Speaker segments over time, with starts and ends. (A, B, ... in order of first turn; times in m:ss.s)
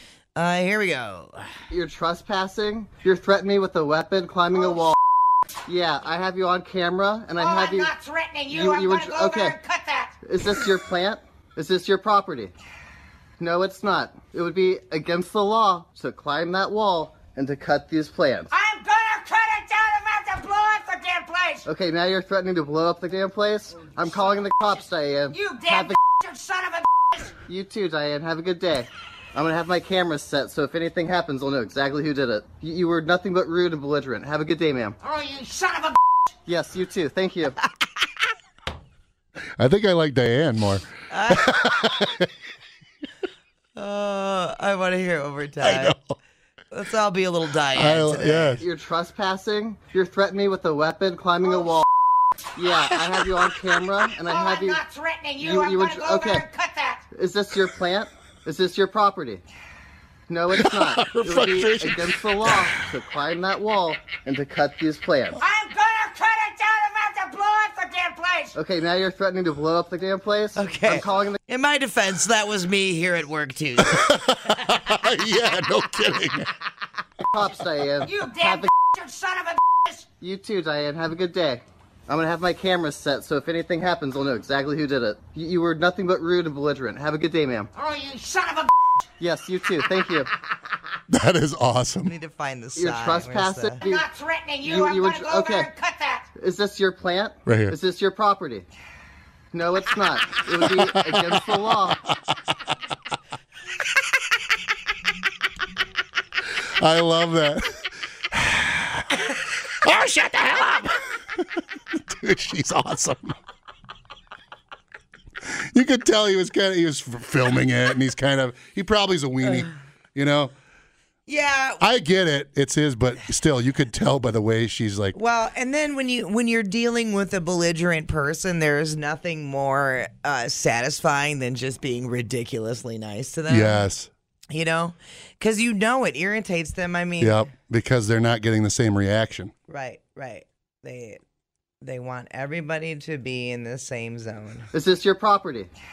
0:00.4-0:01.5 A
0:01.7-0:05.0 B
0:05.7-0:07.9 B
0:07.4-0:10.1 C
0:08.5-0:09.6 B
0:10.2-0:12.5 B
0:13.4-0:18.5 B
0:18.5-0:21.7 C
0:21.7-0:26.0 B
0:25.3-0:27.3 C
0:27.5-0:35.0 B
0:35.0-0:36.0 C
0:36.5-0:37.6 B
0:39.6-0:42.3 D
0:41.1-0:41.6 A
0:43.8-0:45.9 A
0:45.6-0:46.1 D
0:46.7-0:48.6 A
0:47.8-0:48.6 D
0:48.6-0:51.8 B
0:52.6-0:54.8 B
0:54.2-0:57.0 C
0:55.4-0:56.4 B
0:57.1-0:59.4 B
1:00.3-1:05.4 B
1:00.5-1:02.9 D
1:05.4-1:08.6 C
1:08.6-1:11.4 B
1:10.6-1:14.1 A
1:13.8-1:16.5 D
1:17.3-1:18.7 B
1:18.0-1:20.0 C
1:20.2-1:27.7 B
1:27.8-1:28.7 C
1:29.2-1:30.3 B
1:31.1-1:32.1 D
1:32.0-1:33.8 A
1:32.8-1:34.0 B
1:33.8-1:36.3 C
1:34.6-1:35.7 B
1:36.4-1:38.6 B
1:37.4-1:37.8 D
1:39.5-1:42.0 B
1:40.5-1:42.2 D
1:46.6-1:53.4 D
1:55.4-2:00.5 D
2:01.3-2:01.8 A
2:01.8-2:05.1 D
2:05.1-2:13.8 A
2:13.5-2:14.1 D
2:14.5-2:17.3 A
2:17.2-2:19.5 D
2:19.7-2:21.2 A
2:21.8-2:24.7 A
2:24.7-2:25.7 B